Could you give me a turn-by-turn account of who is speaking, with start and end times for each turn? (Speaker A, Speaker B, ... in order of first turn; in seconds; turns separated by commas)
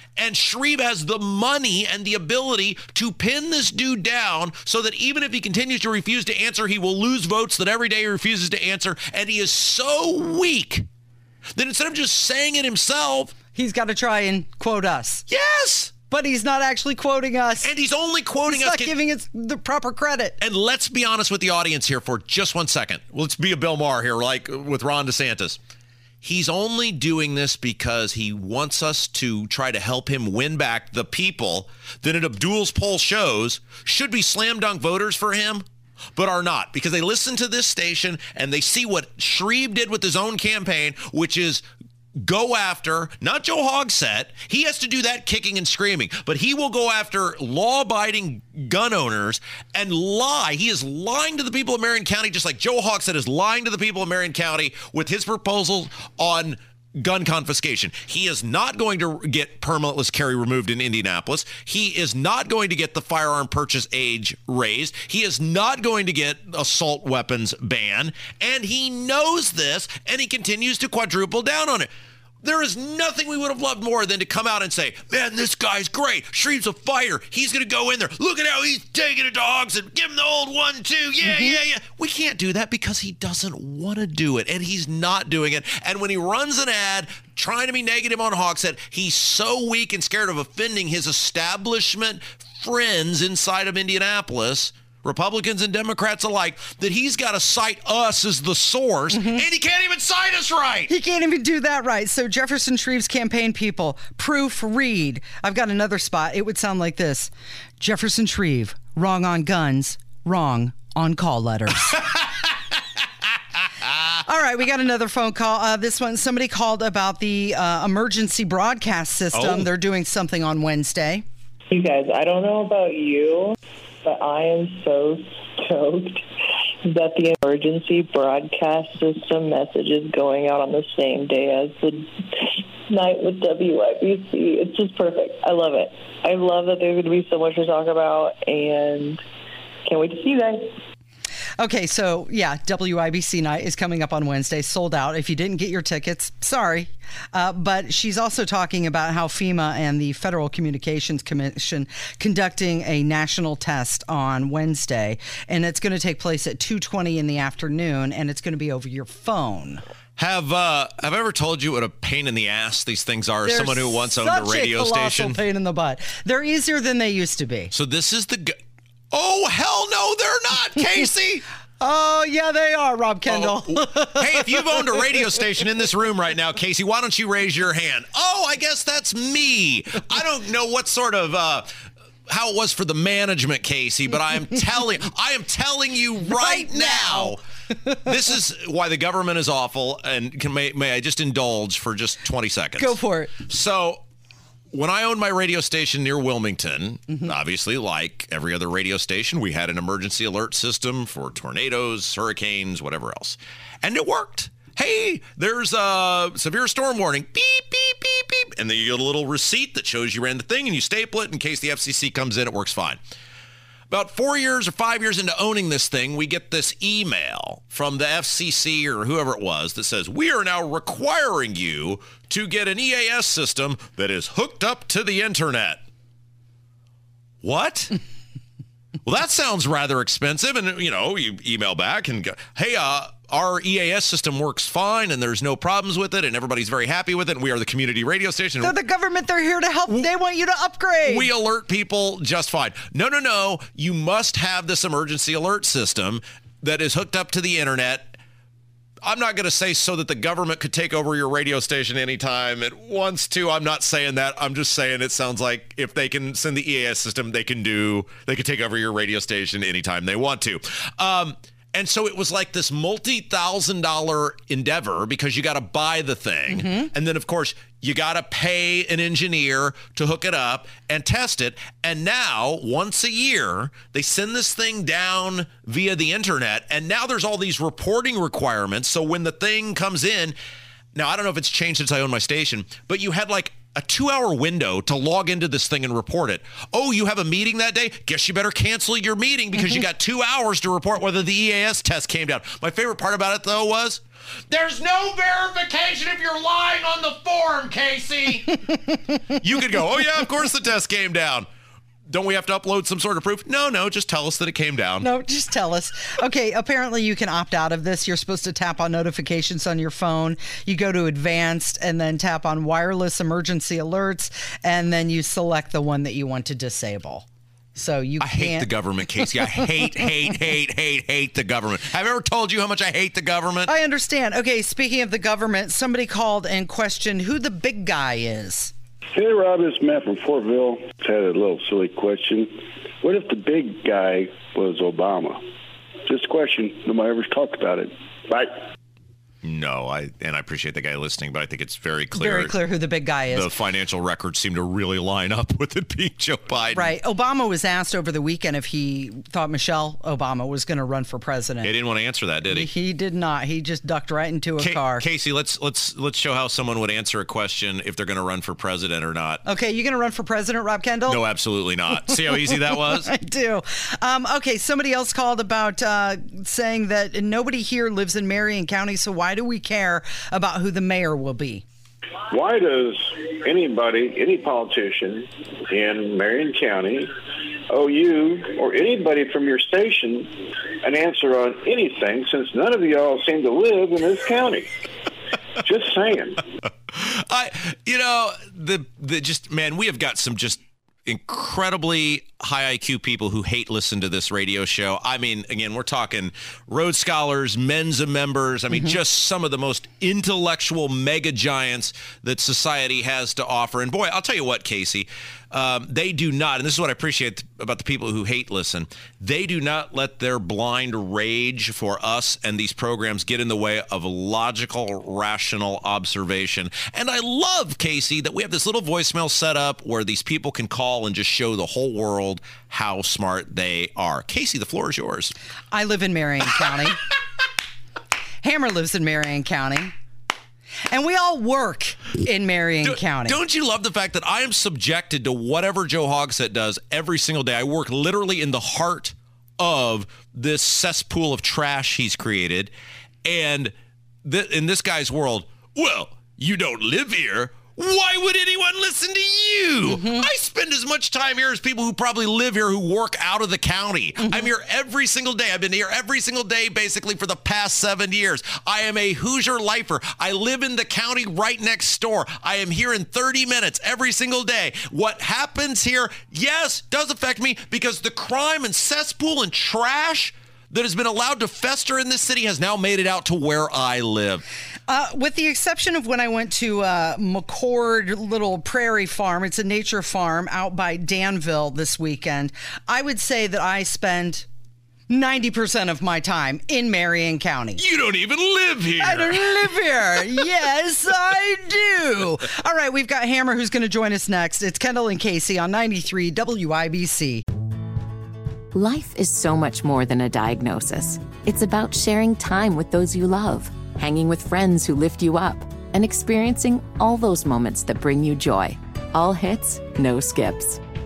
Speaker A: 0.2-10.8, Speaker A: 11.5-13.3, Speaker B: 13.5-15.2, Speaker A: 15.3-15.9, Speaker B: 16.1-17.7, Speaker A: 17.6-18.9, Speaker B: 18.5-20.4, Speaker A: 20.4-25.6, Speaker A: 26.2-35.6, Speaker A: 36.1-41.6, Speaker A: 42.2-71.9, Speaker A: 72.4-100.9, Speaker B: 81.2-81.5, Speaker B: 99.1-99.4, Speaker B: 100.9-112.0, Speaker A: 111.9-112.2, Speaker A: 113.8-114.2, Speaker B: 114.3-121.2, Speaker A: 119.3-119.7, Speaker C: 121.7-126.2, Speaker C: 126.8-139.2, Speaker C: 139.8-140.7, Speaker B: 141.6-159.8, Speaker A: 160.2-165.4, Speaker B: 163.4-167.7, Speaker A: 167.7-168.6, Speaker A: 169.1-171.4, Speaker B: 171.8-175.2, Speaker A: 173.3-187.4, Speaker B: 186.3-187.3, Speaker A: 187.9-194.0, Speaker B: 192.8-193.4, Speaker A: 194.7-213.0, Speaker A: 213.9-225.8, Speaker A: 227.4-227.9, Speaker A: 229.1-238.7, Speaker B: 238.6-241.3, Speaker A: 241.0-248.2, Speaker A: 249.0-280.4, Speaker B: 266.5-266.9, Speaker A: 280.9-298.6, Speaker A: 299.4-301.5, Speaker A: 302.1-305.1, Speaker B: 305.0-318.7, Speaker A: 318.2-323.7, Speaker B: 319.4-320.0, Speaker B: 323.7-328.7, Speaker D: 329.1-335.4, Speaker D: 336.1-338.6, Speaker A: 339.4-342.5, Speaker B: 342.1-343.5, Speaker A: 343.3-346.9, Speaker B: 346.7-351.7, Speaker A: 351.6-352.7, Speaker B: 352.4-355.0, Speaker A: 354.6-359.4, Speaker B: 359.4-361.2, Speaker A: 361.1-363.1, Speaker B: 362.1-371.6, Speaker D: 372.3-377.1, Speaker D: 377.7-384.7, Speaker D: 385.6-386.4, Speaker A: 386.9-425.3, Speaker B: 425.7-427.0, Speaker B: 428.4-429.9, Speaker B: 430.9-433.4, Speaker A: 432.8-442.7, Speaker A: 443.2-474.4, Speaker B: 449.8-450.2, Speaker B: 454.2-454.5, Speaker B: 474.9-484.5, Speaker B: 485.1-487.8, Speaker A: 487.8-489.6, Speaker B: 489.0-497.4, Speaker E: 498.7-510.8